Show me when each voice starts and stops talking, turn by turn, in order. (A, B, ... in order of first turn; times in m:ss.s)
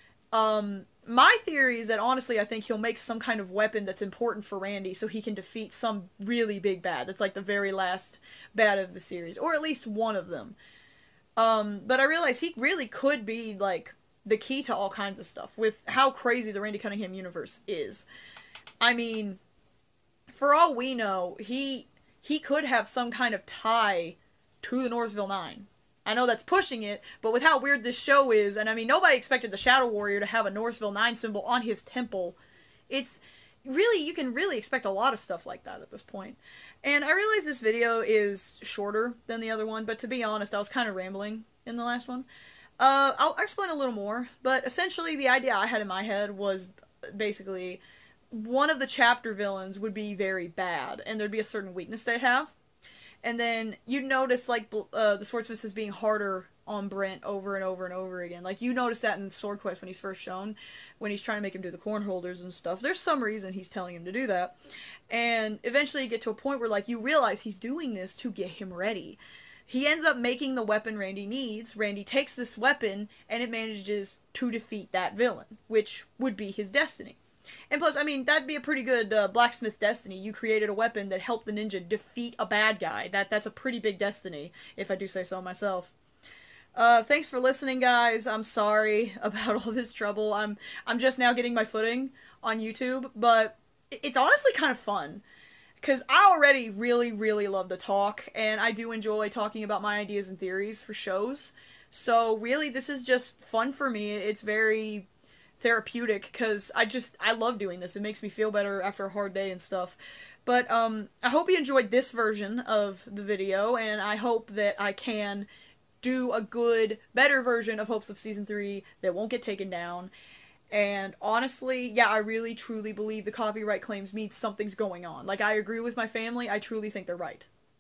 0:00.3-0:10.6 A
0:11.4-0:18.1 A
0:18.8-0:19.4 A
0:20.3-0:32.4 A
0:32.9-0:42.3 A
0:42.8-0:52.5 A
0:53.2-1:04.5 A
1:05.1-1:17.2 A
1:17.7-1:25.9 A
1:26.7-1:35.2 A
1:35.8-1:45.1 A
1:45.6-1:55.5 A
1:56.0-2:00.1 A
2:00.7-2:07.5 A